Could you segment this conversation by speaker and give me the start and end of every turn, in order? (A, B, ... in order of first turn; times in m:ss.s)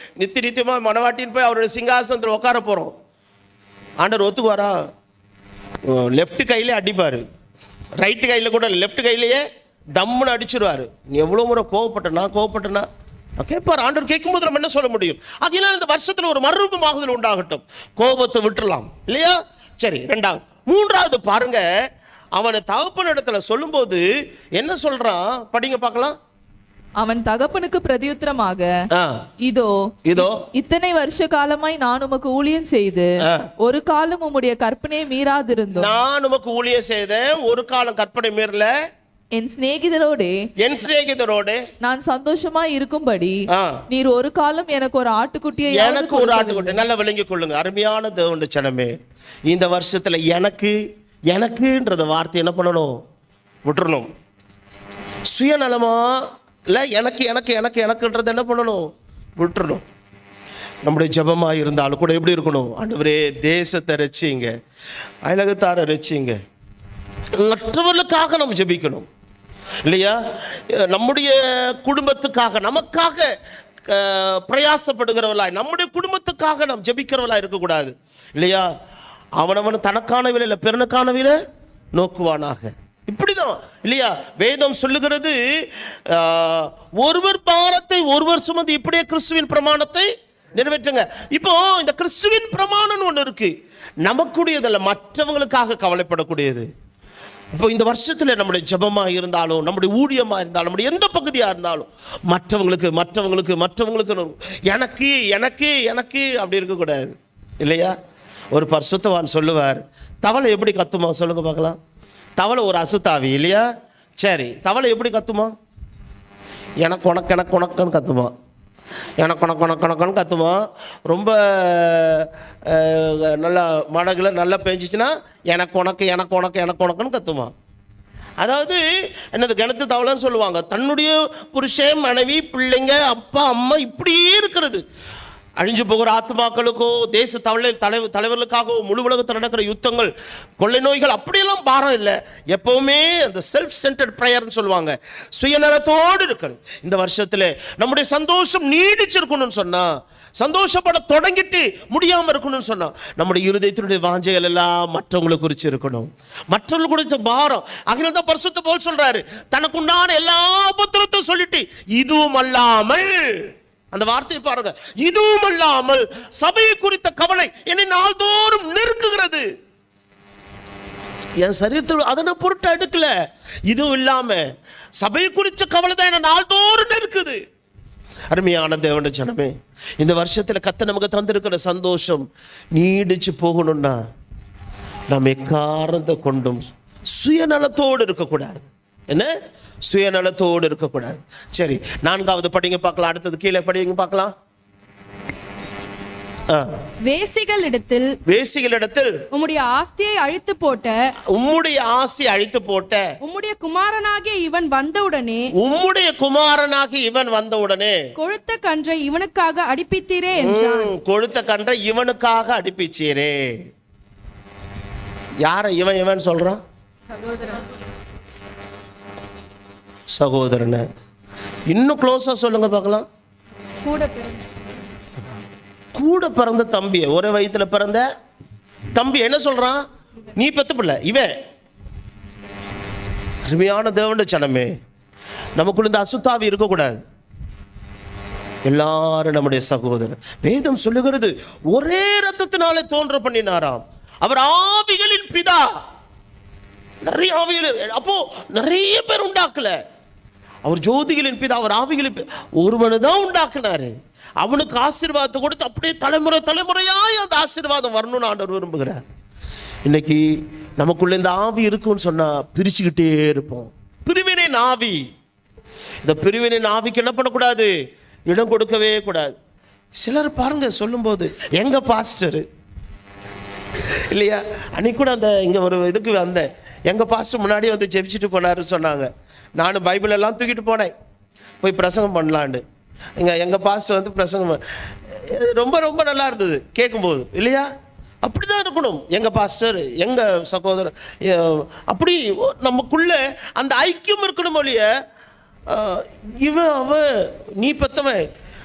0:00.2-0:02.9 A
0:04.0-0:04.8 A
0:05.9-0:07.2 A
0:08.0-0:09.4 A
0:10.0-0:12.9 A
0:13.4-0:21.7 A
0:22.4-0:24.0 A
0:24.6-0:26.2 A
0:27.0-0:28.7 B
0:28.9-0:29.3 A
0:29.4-0:33.1 B
0:30.1-0:30.4 A
0:33.2-0:33.5 A
0:33.6-0:35.9 B
0:35.7-0:38.7 A
0:39.3-0:40.4 B
0:40.6-0:41.6 A
0:41.8-0:46.8 B
0:43.5-0:43.8 A
0:45.7-0:48.9 A
0:49.5-0:50.8 A
0:51.3-0:53.0 A
0:53.6-0:54.1 A
0:55.3-0:58.9 A
0:59.4-0:59.8 A
1:00.8-1:04.5 A
1:05.3-1:06.4 A
1:07.4-1:09.1 A
1:09.9-1:13.3 A
1:13.9-1:18.7 A
1:19.4-1:21.4 A
1:22.0-1:25.4 A
1:26.1-1:33.5 A
1:34.0-1:36.7 A
1:37.5-1:47.9 A
1:48.5-1:51.8 A
1:52.4-1:53.6 A
1:54.2-1:55.5 A
1:56.8-1:58.3 A
1:59.2-2:07.5 A
2:08.4-2:08.8 A
2:09.3-2:14.8 A
2:15.6-2:49.4 A
2:51.4-2:53.1 A
2:53.7-2:54.4 A
2:55.0-2:57.4 A
2:58.3-3:04.0 A
3:05.1-3:06.6 A
3:07.2-3:09.3 A
3:09.9-3:14.3 A
3:17.0-3:18.1 C
3:18.3-3:19.1 A
3:19.3-3:21.0 C
3:21.3-3:23.0 A
3:23.2-3:25.4 C
3:25.6-3:28.0 A
3:28.2-3:30.9 C
3:30.4-3:33.5 A
3:35.4-3:36.6 A
3:40.1-3:40.8 A
3:41.7-3:43.1 A
3:43.8-3:44.4 C
3:46.0-3:48.0 A
3:49.0-3:49.8 A
3:50.4-3:51.3 A
3:53.5-3:54.7 A
3:55.6-3:57.0 A
3:58.7-4:05.6 A
4:07.0-4:09.8 A
4:10.7-4:19.0 A
4:19.8-4:20.2 A
4:20.8-4:25.0 A
4:26.0-4:27.7 A
4:28.3-4:29.3 A
4:30.0-4:32.4 A
4:34.1-4:40.9 A
4:41.6-4:42.6 A
4:43.2-4:44.6 A
4:45.1-4:47.7 A
4:48.2-4:54.9 A
4:55.7-4:57.1 A
4:57.6-4:58.2 A